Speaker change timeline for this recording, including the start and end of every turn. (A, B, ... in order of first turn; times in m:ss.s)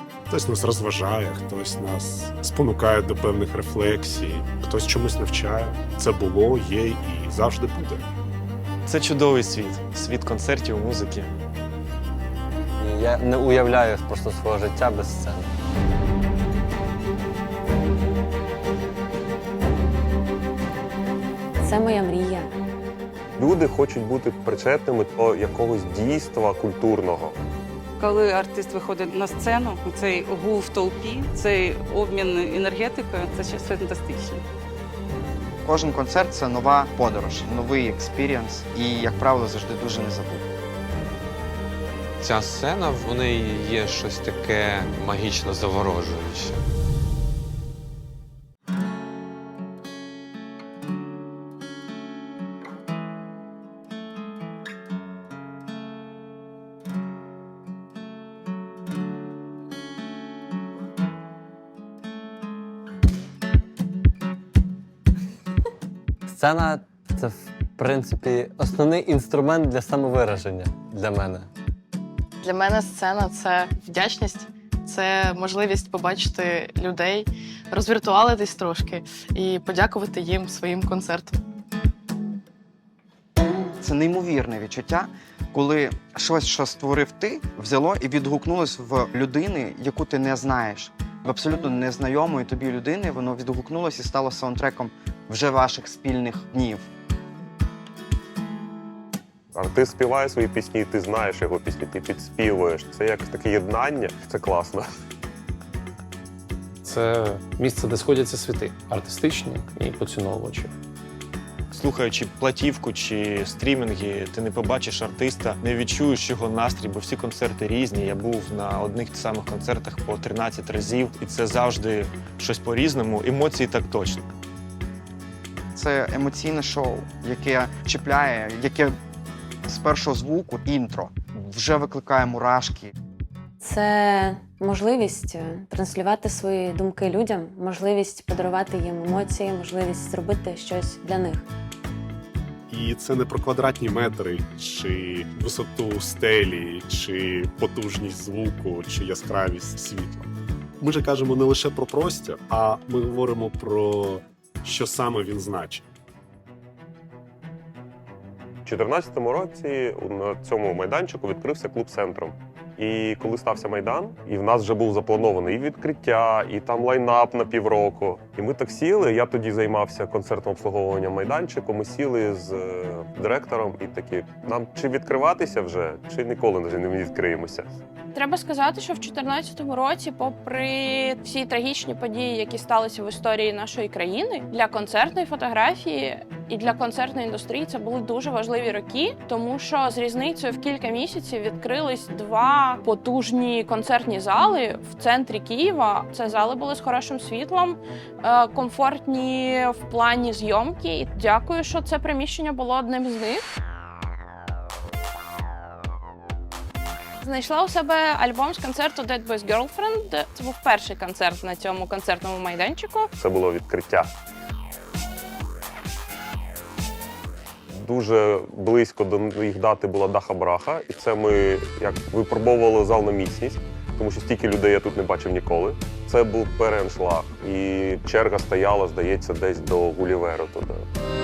0:00.3-0:08.1 A
0:08.8-0:11.3 B
0:12.8-0:15.5 C
0:21.6-0:22.5 D
0:23.4-0:27.4 E
0:28.0-0:34.4 F
0:35.6-0:40.4 G
0:42.2-0:46.6 H
1:06.3-1:11.5 C
1:12.4-1:21.4 I
1:23.8-1:36.8 G
1:39.5-1:44.9 E
1:46.8-1:50.7 J
1:51.7-2:04.2 B
2:05.7-2:09.0 G
2:09.7-2:12.9 G
2:13.6-2:21.4 D
2:22.7-2:35.8 A
2:38.6-2:57.8 E
2:58.1-3:23.4 K
3:27.2-3:33.1 K
3:33.2-3:34.1 E
3:37.7-3:50.8 E